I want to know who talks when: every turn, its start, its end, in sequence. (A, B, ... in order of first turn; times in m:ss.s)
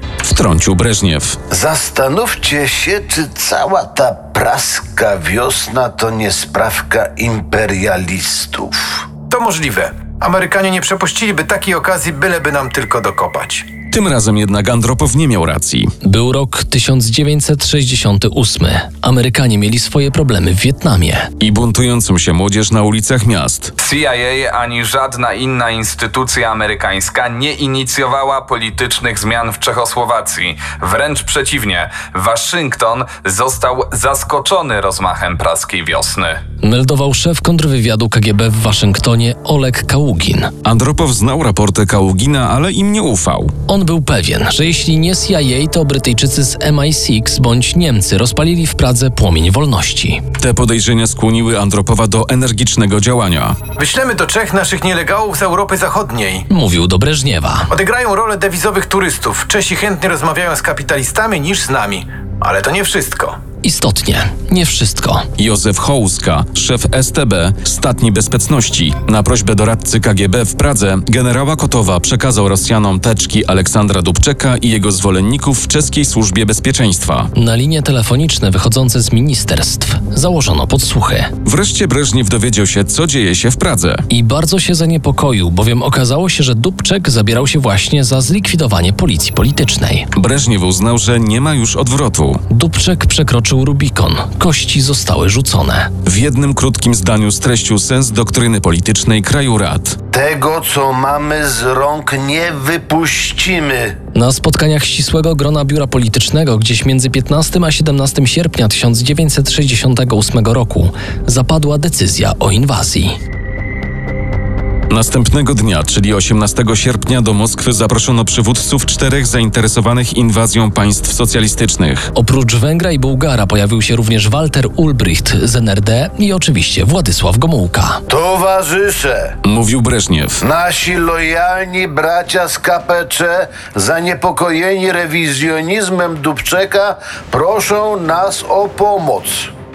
0:00.2-0:01.4 A
0:01.5-0:09.0 B
0:09.3-0:13.7 C
0:13.9-0:15.9 A
0:16.0-0:21.3 D
0:21.4-0:23.7 A
0:23.8-0:36.4 E
0:36.6-0:40.5 D
0:40.6-0:43.5 A
0:43.7-0:50.2 D
0:50.4-0:53.6 A
0:53.8-0:56.4 C
0:56.5-0:57.7 D
0:57.7-1:03.4 C
1:03.6-1:05.3 D
1:05.4-1:17.3 A
1:17.4-1:21.3 D
1:21.4-1:24.0 A
1:24.1-1:30.1 D
1:30.2-1:32.4 A
1:32.5-1:35.9 D
1:36.0-1:40.0 A
1:40.1-1:44.0 B
1:44.2-1:53.2 D
1:54.9-2:02.1 A
2:02.2-2:08.0 D
2:08.1-2:09.4 B
2:09.4-2:10.4 A
2:10.4-2:19.5 B